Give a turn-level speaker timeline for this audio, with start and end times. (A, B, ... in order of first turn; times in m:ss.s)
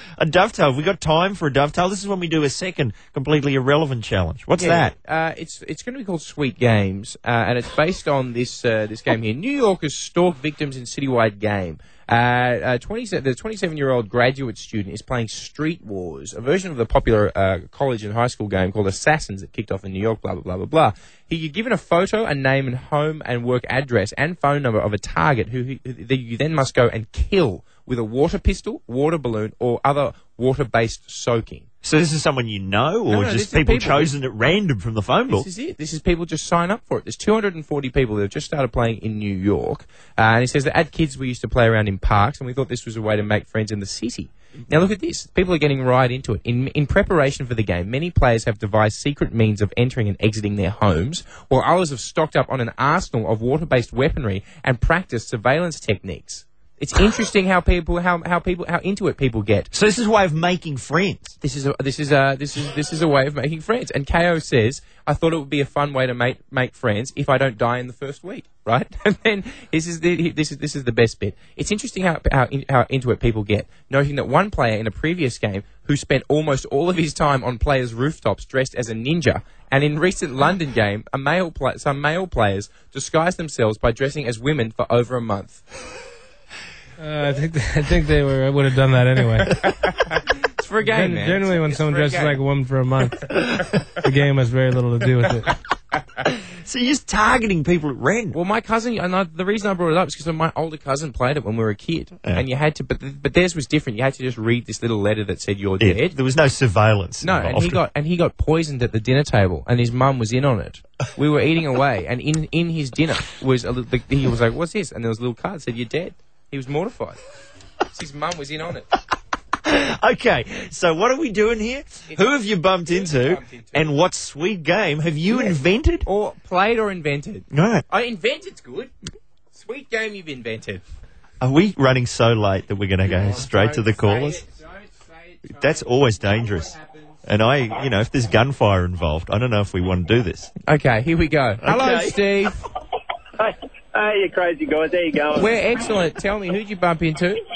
0:00.2-0:04.9 A
0:04.6-0:31.7 B
0:31.8-0:35.5 A
0:33.1-0:34.1 B
0:35.3-0:59.7 B
0:59.7-1:01.4 A
1:01.4-1:25.6 B
1:27.0-1:29.6 C
1:29.5-1:32.4 B
1:30.8-1:33.3 C
1:34.0-1:35.5 C
1:36.4-1:38.4 A
1:38.3-1:46.2 B
1:45.8-1:47.8 A
1:47.2-1:57.2 B
1:57.9-1:58.9 B
1:59.6-2:06.1 A
2:02.9-2:03.9 B
2:05.3-2:08.9 B
2:07.5-2:07.8 A
2:09.5-2:10.8 B
2:11.4-2:14.4 A
2:13.1-2:15.6 B
2:15.4-2:20.5 A
2:16.4-2:17.2 B
2:20.7-2:22.6 B
2:21.6-2:22.5 A
2:23.4-2:25.5 D
2:25.4-2:27.4 B